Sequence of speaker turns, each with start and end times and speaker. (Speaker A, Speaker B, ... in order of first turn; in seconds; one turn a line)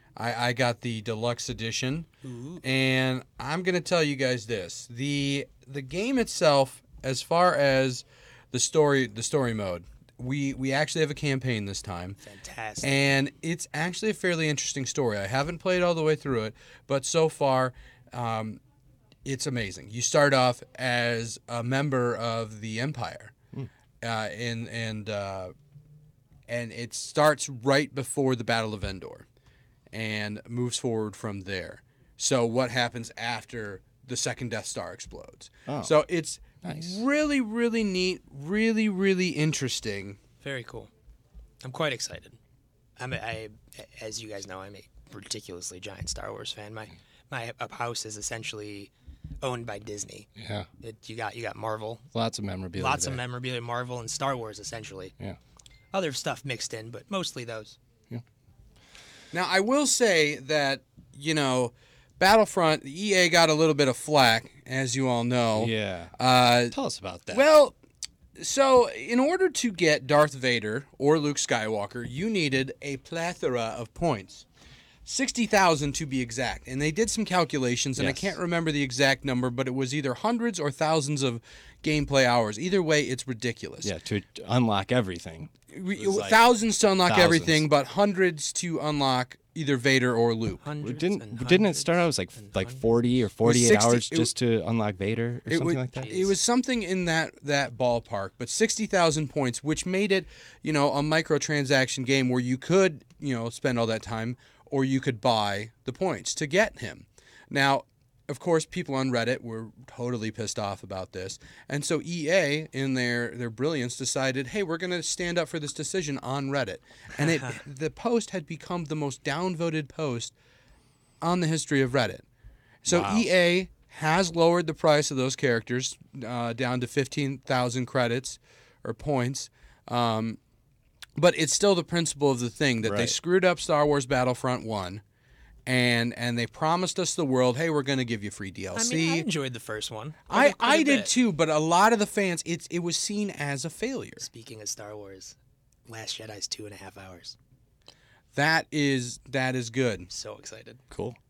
Speaker A: 0.1-2.1
Speaker B: 2.2-2.6
Speaker A: 2.6-12.2
Speaker B: 12.2-13.0
Speaker A: 12.8-18.6
Speaker A: 19.2-23.3
Speaker A: 24.0-25.5
Speaker A: 26.5-29.2
Speaker A: 29.9-40.2
Speaker C: 35.7-35.9
Speaker C: 36.6-37.0
Speaker B: 40.4-40.9
Speaker B: 41.6-42.4
Speaker B: 43.0-50.3
Speaker C: 50.4-50.7
Speaker B: 50.8-52.0
Speaker C: 52.1-53.2
Speaker B: 52.8-55.1
Speaker B: 55.9-57.8
Speaker A: 59.3-66.8
Speaker C: 65.5-66.1
Speaker C: 66.7-67.5
Speaker A: 67.3-67.7
Speaker A: 68.4-74.4
Speaker A: 75.0-83.9
Speaker C: 78.0-78.4
Speaker C: 83.8-86.4
Speaker A: 85.7-90.6
Speaker C: 87.0-87.7
Speaker B: 90.6-92.8
Speaker C: 90.8-96.1
Speaker A: 93.4-94.3
Speaker A: 95.5-120.3
Speaker B: 96.0-96.3
Speaker A: 121.2-122.2
Speaker A: 122.8-130.4
Speaker C: 122.9-123.3
Speaker A: 131.2-135.0
Speaker C: 132.8-133.2
Speaker A: 135.7-139.3
Speaker B: 138.7-141.1
Speaker A: 140.3-144.2
Speaker B: 144.2-145.3
Speaker B: 145.9-147.3
Speaker A: 148.3-150.1
Speaker B: 150.1-150.8
Speaker C: 150.9-151.2